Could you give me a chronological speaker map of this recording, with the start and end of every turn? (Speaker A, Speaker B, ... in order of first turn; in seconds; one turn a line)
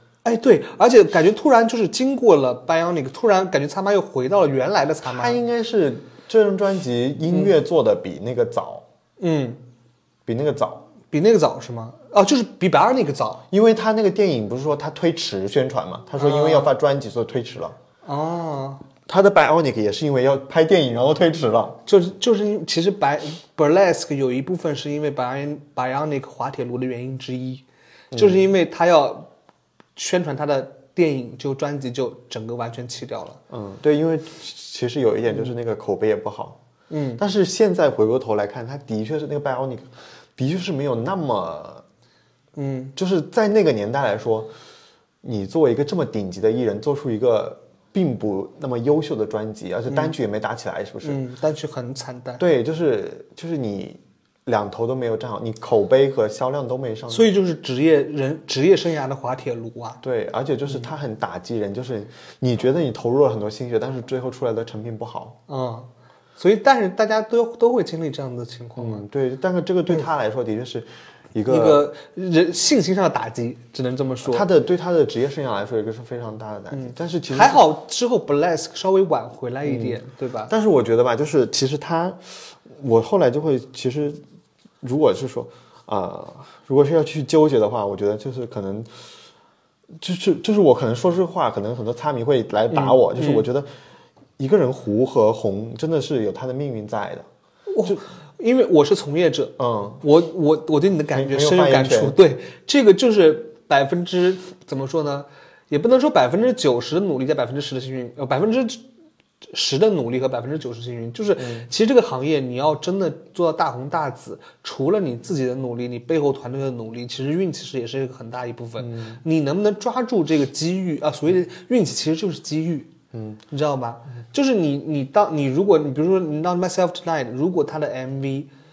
Speaker A: 0.2-5.4
Speaker B: 5.0-8.8
Speaker A: 9.2-9.6
Speaker B: 10.2-10.8
Speaker A: 11.1-13.4
Speaker B: 13.5-17.8
Speaker A: 16.2-16.7
Speaker A: 18.0-18.8
Speaker B: 19.1-21.8
Speaker A: 21.9-29.3
Speaker B: 28.1-28.5
Speaker A: 29.9-33.4
Speaker B: 33.5-36.6
Speaker A: 36.9-37.2
Speaker B: 37.2-41.8
Speaker A: 42.5-42.9
Speaker B: 43.0-44.5
Speaker B: 45.2-51.2
Speaker A: 49.9-50.1
Speaker A: 51.0-52.4
Speaker B: 52.4-57.3
Speaker A: 57.1-60.0
Speaker B: 60.0-65.3
Speaker A: 65.5-69.0
Speaker B: 68.8-71.8
Speaker A: 71.5-74.5
Speaker B: 74.2-77.6
Speaker A: 76.7-80.5
Speaker B: 79.6-80.0
Speaker B: 80.5-84.2
Speaker B: 84.8-88.9
Speaker B: 90.0-93.7
Speaker A: 92.7-93.5
Speaker B: 94.4-97.3
Speaker A: 97.7-108.8
Speaker B: 99.6-100.0
Speaker B: 101.1-102.2
Speaker A: 109.5-122.9
Speaker B: 111.4-111.7
Speaker B: 118.8-119.2
Speaker B: 123.1-123.4
Speaker A: 123.5-128.5